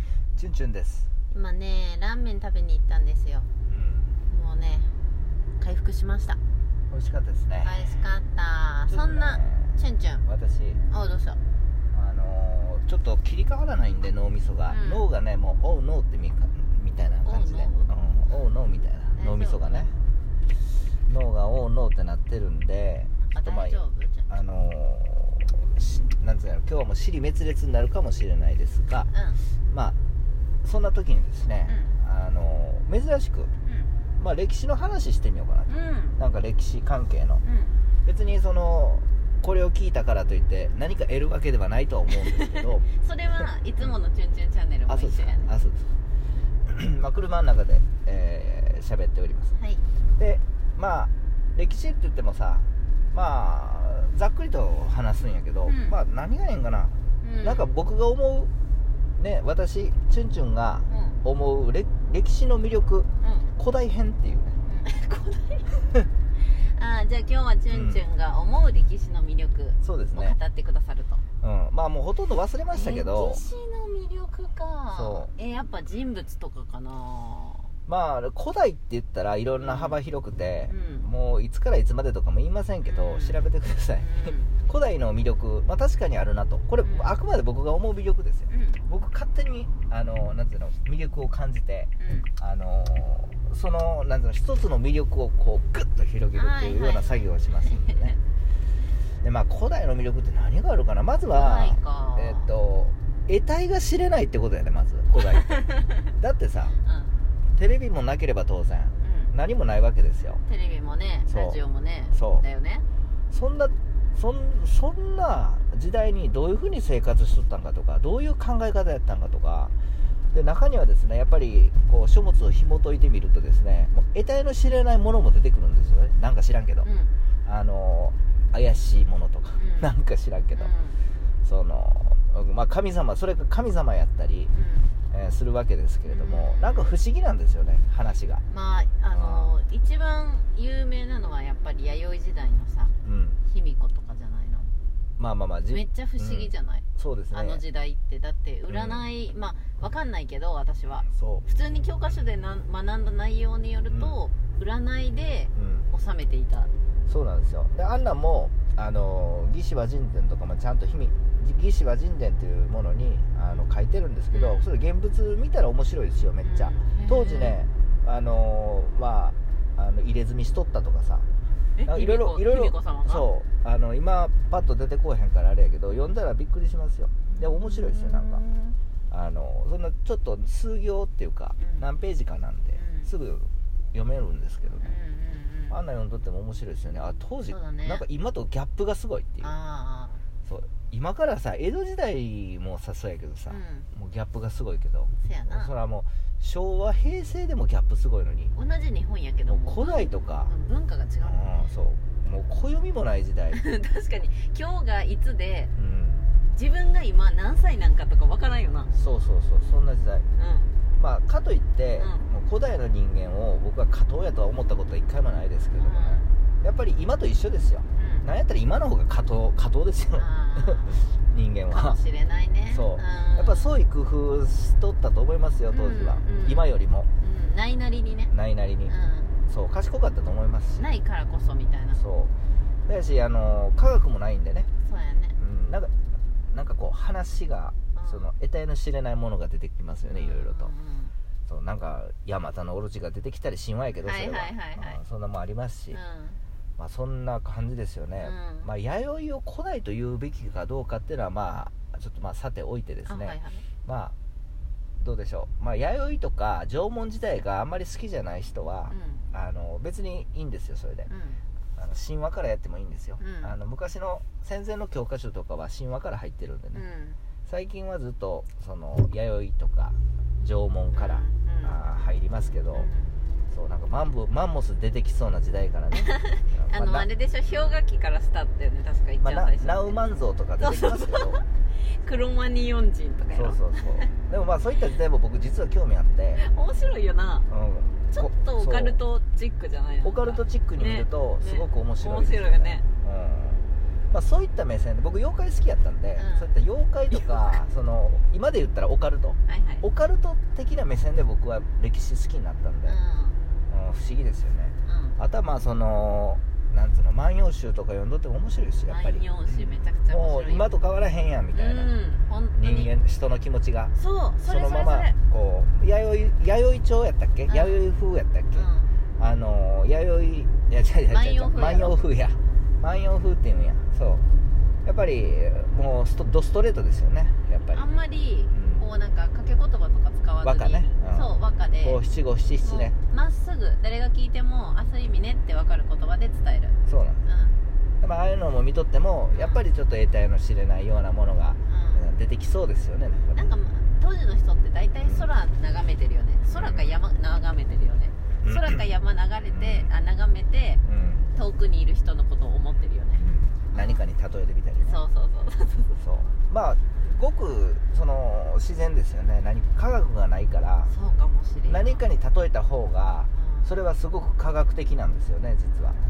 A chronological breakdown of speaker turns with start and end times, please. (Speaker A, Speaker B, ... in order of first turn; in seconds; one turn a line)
Speaker A: 0.3-1.1
Speaker B: 1.3-3.5
Speaker A: 3.7-4.2
Speaker B: 4.2-5.0
Speaker B: 5.6-6.4
Speaker A: 6.9-8.0
Speaker B: 7.6-10.2
Speaker A: 8.9-10.8
Speaker B: 10.9-11.4
Speaker A: 11.9-19.9
Speaker B: 14.7-15.1
Speaker B: 17.1-17.9
Speaker B: 19.1-19.9
Speaker A: 21.1-29.1
Speaker B: 23.0-24.3
Speaker B: 29.1-29.4
Speaker A: 29.7-29.9
Speaker A: 30.6-33.5
Speaker B: 31.7-31.9
Speaker B: 33.6-33.9
Speaker A: 34.2-37.4
Speaker B: 35.7-36.2
Speaker B: 37.4-37.8
Speaker A: 38.0-42.8
Speaker B: 42.2-45.5
Speaker A: 44.9-45.9
Speaker A: 46.6-49.5
Speaker B: 49.5-49.8
Speaker A: 50.2-58.5
Speaker B: 55.6-56.0
Speaker B: 57.2-57.8
Speaker A: 59.2-64.6
Speaker B: 60.9-61.2
Speaker B: 63.2-63.5
Speaker B: 64.6-65.8
Speaker B: 66.4-71.2
Speaker A: 67.7-68.0
Speaker A: 69.8-70.4
Speaker A: 71.4-73.4
Speaker B: 72.7-77.7
Speaker A: 74.9-75.3
Speaker A: 77.8-98.2
Speaker B: 79.5-80.0
Speaker B: 80.7-81.1
Speaker B: 82.8-83.5
Speaker B: 84.0-84.5
Speaker B: 86.8-87.1
Speaker B: 88.5-88.8
Speaker B: 92.0-92.3
Speaker B: 96.3-98.1
Speaker A: 99.2-106.8
Speaker B: 101.3-102.5
Speaker B: 105.5-105.9
Speaker B: 106.8-107.2
Speaker A: 107.5-110.4
Speaker B: 109.0-109.3
Speaker B: 110.5-112.8
Speaker A: 111.3-111.6
Speaker A: 112.1-112.4
Speaker A: 113.3-119.7
Speaker A: 120.3-126.9
Speaker B: 126.8-127.1
Speaker A: 127.4-130.7
Speaker B: 129.6-129.9
Speaker B: 130.5-131.0
Speaker A: 131.4-134.5
Speaker B: 134.5-134.9
Speaker A: 135.1-138.4
Speaker B: 136.1-136.9
Speaker B: 138.5-144.7
Speaker A: 139.1-139.5
Speaker A: 143.0-143.4
Speaker A: 145.2-147.6
Speaker B: 145.7-156.7
Speaker A: 148.7-149.0
Speaker A: 151.0-151.5
Speaker A: 153.9-154.2
Speaker A: 155.5-155.9
Speaker A: 157.1-171.3
Speaker B: 164.3-164.7
Speaker B: 166.4-167.6
Speaker B: 171.7-173.3
Speaker A: 171.8-178.4
Speaker B: 177.2-178.8
Speaker A: 179.1-184.9
Speaker B: 181.6-181.8
Speaker B: 182.8-183.1
Speaker B: 184.8-185.8
Speaker A: 185.7-189.5
Speaker B: 187.5-188.0
Speaker B: 189.4-190.2
Speaker A: 190.4-198.5
Speaker B: 193.5-193.9
Speaker B: 195.2-195.7
Speaker B: 198.5-201.6
Speaker A: 199.5-200.5
Speaker A: 201.2-203.6
Speaker B: 203.5-205.7
Speaker A: 205.8-206.3
Speaker B: 206.5-208.9
Speaker A: 208.9-210.3
Speaker B: 210.3-210.7
Speaker A: 211.0-222.0
Speaker B: 212.0-212.3
Speaker B: 215.8-216.3
Speaker B: 217.9-218.2
Speaker B: 220.2-221.0
Speaker B: 221.7-223.8
Speaker A: 222.7-227.1
Speaker B: 225.7-226.6
Speaker B: 227.2-228.3
Speaker A: 228.3-228.9
Speaker B: 228.9-229.3
Speaker A: 229.5-230.8
Speaker B: 230.8-232.0
Speaker A: 231.9-232.3
Speaker A: 232.8-234.7
Speaker B: 234.8-235.3
Speaker A: 235.4-235.9
Speaker A: 236.5-240.7
Speaker B: 237.9-238.3
Speaker B: 240.1-241.1
Speaker A: 241.5-246.0
Speaker B: 244.0-245.0
Speaker B: 245.9-246.4
Speaker A: 246.8-254.1
Speaker B: 248.2-248.7
Speaker B: 253.1-253.6
Speaker A: 255.0-261.1
Speaker B: 258.9-259.2
Speaker B: 261.1-261.4
Speaker A: 261.8-266.8
Speaker B: 263.2-263.5
Speaker B: 266.7-267.2
Speaker A: 267.4-272.9
Speaker B: 270.9-271.8
Speaker B: 272.7-273.1
Speaker A: 273.5-277.8
Speaker B: 276.0-280.0
Speaker A: 279.2-281.4
Speaker B: 280.6-284.1
Speaker A: 283.3-286.4
Speaker B: 286.4-287.5
Speaker A: 287.5-289.0
Speaker B: 288.1-292.8
Speaker A: 290.0-303.0
Speaker B: 296.1-296.5
Speaker B: 297.1-297.6
Speaker B: 299.4-299.8
Speaker B: 302.8-303.4
Speaker A: 303.7-311.9
Speaker B: 304.9-305.2
Speaker B: 308.9-310.7
Speaker B: 311.5-312.9
Speaker A: 312.6-324.2
Speaker B: 313.9-315.1
Speaker B: 317.5-317.9
Speaker B: 318.5-318.9
Speaker B: 321.1-322.0
Speaker A: 324.8-327.8
Speaker B: 327.7-332.0
Speaker A: 328.5-328.8
Speaker A: 330.4-332.9
Speaker B: 332.6-337.6
Speaker A: 336.9-337.2
Speaker A: 338.0-343.5
Speaker B: 339.3-339.6
Speaker B: 341.7-342.0
Speaker B: 343.3-350.8
Speaker A: 345.0-345.3
Speaker A: 346.5-347.0
Speaker A: 348.4-348.8
Speaker A: 349.5-349.9
Speaker A: 350.8-351.3
Speaker B: 351.3-354.1
Speaker A: 353.2-355.0
Speaker B: 354.8-356.0
Speaker A: 356.0-360.9
Speaker B: 360.9-362.0
Speaker A: 361.6-366.0
Speaker B: 363.3-363.7